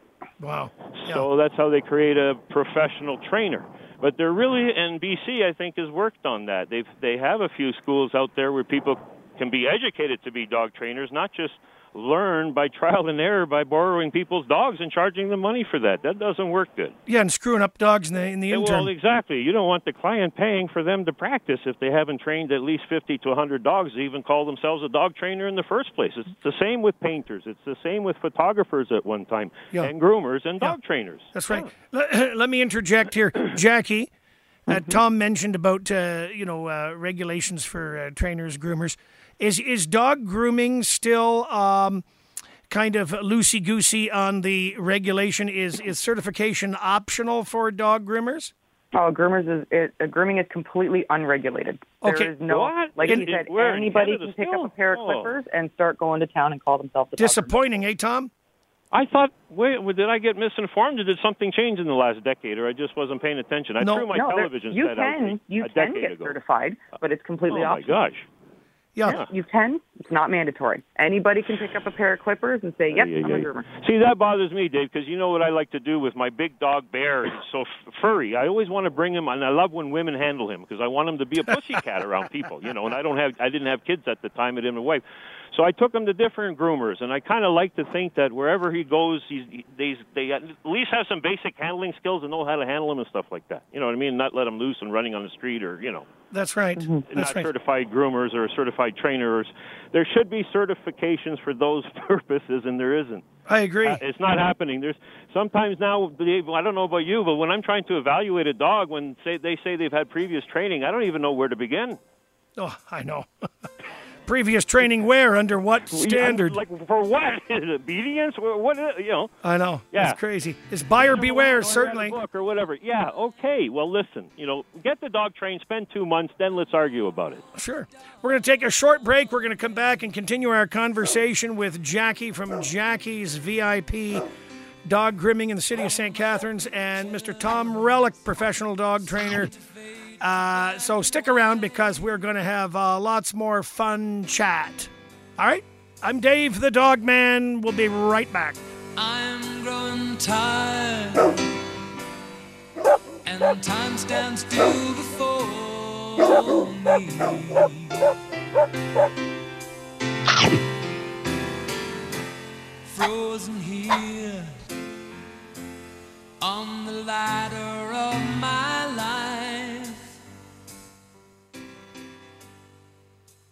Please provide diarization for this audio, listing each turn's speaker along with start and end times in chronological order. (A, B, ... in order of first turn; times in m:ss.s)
0:00.4-0:01.2 A
0:01.0-0:16.9 B
0:17.1-0:18.9 A
0:18.5-0:31.7 B
0:31.3-0:34.1 A
0:34.7-0:35.0 C
0:34.7-0:42.0 A
0:42.7-0:48.5 A
0:48.9-0:57.5 C
0:52.0-0:52.3 A
0:52.5-0:55.3 B
0:57.2-0:58.3 A
0:58.9-1:06.4 B
1:03.8-1:04.1 A
1:04.1-1:08.0 C
1:07.5-1:08.2 B
1:09.1-1:13.6 C
1:12.9-1:36.1 B
1:36.3-1:37.5 A
1:36.8-1:37.0 C
1:37.1-1:43.2 B
1:43.4-1:44.0 A
1:43.8-1:52.0 B
1:52.6-1:53.3 A
1:54.2-1:56.6 A
1:55.9-1:59.3 B
1:59.4-2:02.2 A
1:59.9-2:00.2 B
2:01.0-2:07.4 B
2:07.5-2:14.2 A
2:14.8-2:19.6 A
2:20.2-2:28.6 A
2:29.0-2:31.3 D
2:33.2-2:37.9 D
2:42.9-2:44.5 D
2:46.4-2:50.1 D